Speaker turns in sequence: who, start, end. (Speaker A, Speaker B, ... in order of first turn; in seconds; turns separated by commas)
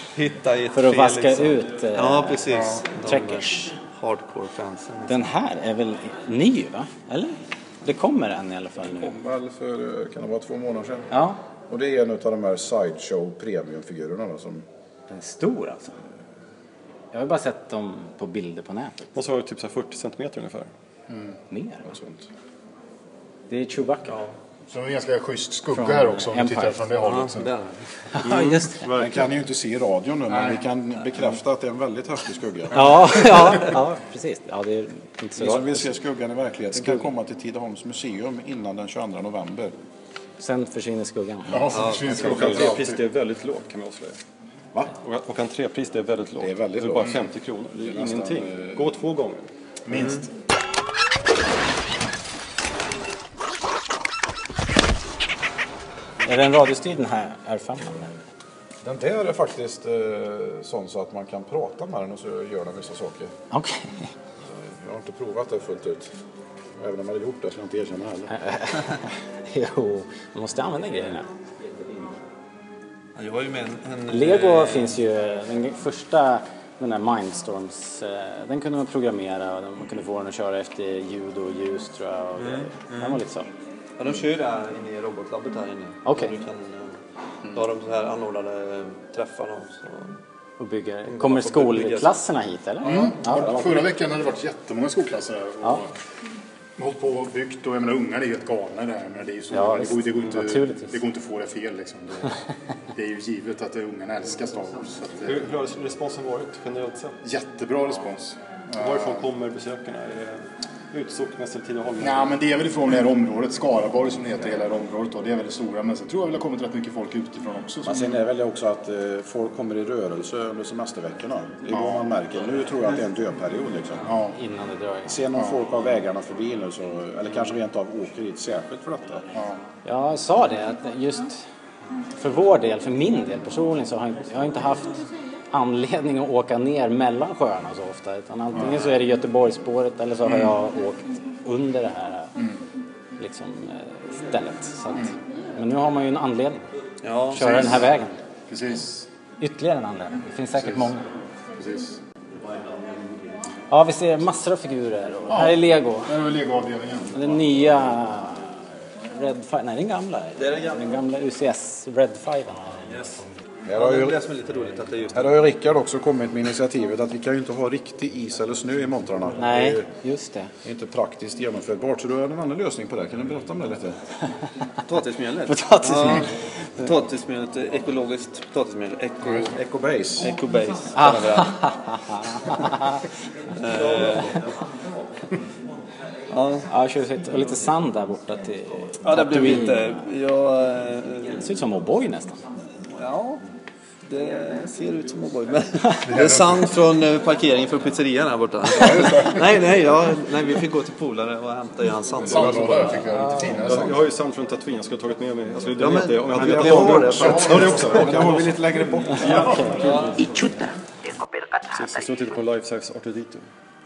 Speaker A: 0.1-5.2, Speaker B: 0.7-2.5, Speaker C: 2.5-2.8, Speaker B: 3.0-3.8, Speaker B: 5.1-9.2, Speaker D: 8.9-11.1, Speaker B: 11.1-11.4, Speaker D: 11.7-14.7, Speaker B: 15.1-16.0, Speaker B: 17.1-19.1, Speaker E: 19.1-20.7, Speaker C: 21.1-21.4, Speaker B: 21.5-21.8, Speaker D: 21.9-22.2, Speaker B: 23.5-24.2, Speaker C: 24.7-27.5, Speaker B: 25.7-26.8, Speaker A: 27.0-27.9, Speaker B: 28.2-28.8, Speaker E: 28.2-29.3, Speaker D: 28.9-33.4, Speaker B: 32.7-35.9, Speaker C: 32.8-33.8, Speaker D: 35.4-39.7, Speaker B: 36.7-37.1, Speaker B: 40.4-41.7, Speaker C: 41.5-43.0, Speaker A: 41.7-42.7, Speaker E: 42.1-44.2, Speaker E: 45.0-49.5, Speaker D: 46.4-49.0, Speaker C: 49.9-50.3, Speaker A: 49.9-50.2, Speaker B: 56.2-58.1, Speaker D: 58.8-63.3, Speaker B: 63.5-64.1, Speaker D: 64.4-66.1, Speaker D: 66.8-68.3, Speaker B: 68.3-71.3, Speaker A: 73.2-75.0, Speaker B: 74.1-83.5, Speaker A: 82.4-83.2, Speaker A: 84.0-87.0, Speaker B: 86.0-86.4, Speaker A: 87.5-90.2, Speaker B: 90.6-93.8, Speaker A: 91.1-92.1, Speaker C: 92.8-95.9, Speaker C: 96.8-102.4, Speaker B: 99.5-101.0, Speaker C: 102.9-105.5, Speaker E: 105.2-107.2, Speaker C: 107.2-109.3, Speaker E: 108.8-112.4, Speaker C: 112.0-118.2, Speaker D: 117.8-124.1, Speaker C: 121.7-122.1, Speaker C: 124.0-124.4, Speaker B: 124.3-125.2, Speaker D: 125.1-129.3, Speaker C: 129.3-129.6, Speaker B: 129.8-131.5, Speaker B: 132.2-142.3, Speaker C: 138.5-138.9, Speaker C: 140.2-140.5, Speaker B: 143.2-146.6, Speaker A: 147.0-147.5, Speaker B: 147.3-148.2, Speaker C: 147.3-147.8, Speaker C: 148.5-149.1, Speaker B: 149.4-151.1, Speaker C: 151.6-151.9, Speaker B: 153.7-156.1, Speaker C: 155.3-157.2, Speaker B: 157.1-162.9, Speaker A: 160.4-160.8, Speaker A: 162.9-165.5, Speaker D: 163.7-164.2, Speaker D: 165.1-169.8, Speaker B: 169.3-170.5, Speaker D: 170.6-174.0, Speaker A: 174.9-179.6, Speaker B: 175.5-176.3, Speaker D: 179.5-180.3, Speaker A: 180.2-181.6, Speaker B: 180.9-183.1, Speaker A: 183.5-184.5, Speaker A: 186.3-186.7, Speaker B: 186.7-189.9, Speaker A: 189.0-191.5, Speaker B: 191.3-192.4, Speaker A: 192.9-193.4, Speaker A: 194.1-203.0, Speaker C: 196.0-196.6, Speaker C: 198.8-199.4, Speaker C: 202.3-204.1, Speaker E: 203.3-209.8, Speaker D: 203.7-203.9, Speaker A: 205.7-208.0, Speaker D: 206.4-209.7, Speaker C: 207.0-208.4, Speaker B: 209.2-210.4, Speaker A: 209.8-210.3, Speaker E: 211.7-213.5